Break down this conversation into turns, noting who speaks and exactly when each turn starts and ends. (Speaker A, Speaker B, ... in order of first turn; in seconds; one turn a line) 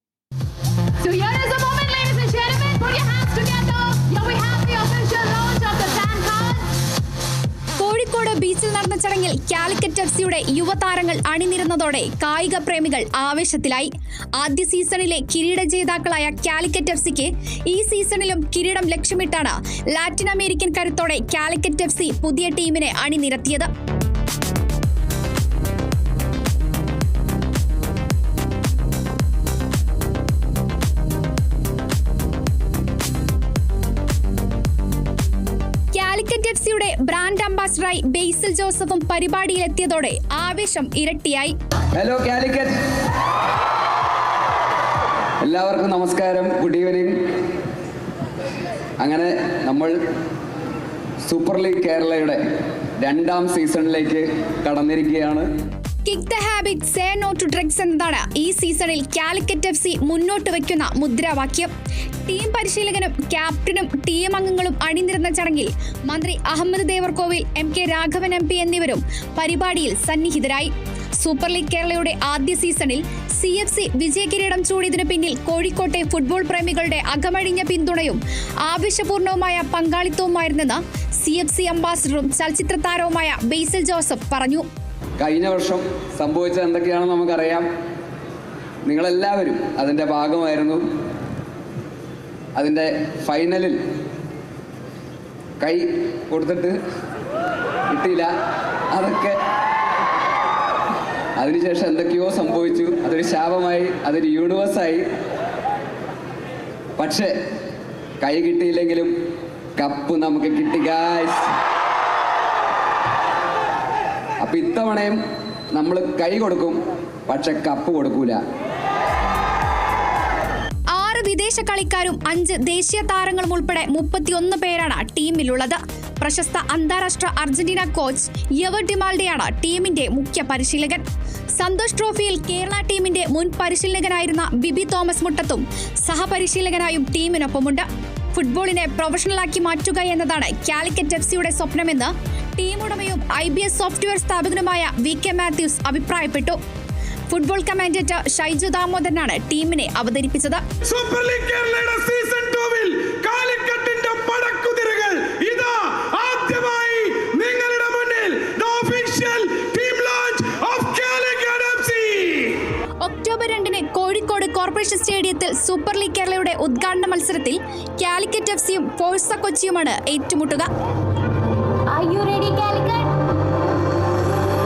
Speaker A: 1.0-6.7
Speaker A: 7.8-23.7
Speaker A: 35.9-41.5
Speaker B: 41.9-42.7
Speaker B: 45.4-47.2
Speaker B: 49.0-49.9
Speaker B: 51.2-52.4
Speaker B: 53.0-55.5
Speaker A: 56.0-61.7
Speaker A: 62.3-84.6
Speaker B: 85.2-87.7
Speaker B: 88.8-90.8
Speaker B: 92.5-93.8
Speaker B: 95.6-96.8
Speaker B: 97.9-98.3
Speaker B: 98.9-99.4
Speaker B: 101.4-105.0
Speaker B: 107.0-107.3
Speaker B: 108.2-109.1
Speaker B: 109.8-111.5
Speaker B: 114.4-115.2
Speaker B: 115.7-118.4
Speaker A: 120.9-131.0
Speaker A: 131.6-146.6
Speaker A: 147.3-150.6
Speaker C: 150.8-162.6
Speaker A: 163.0-170.7
Speaker A: 171.9-173.1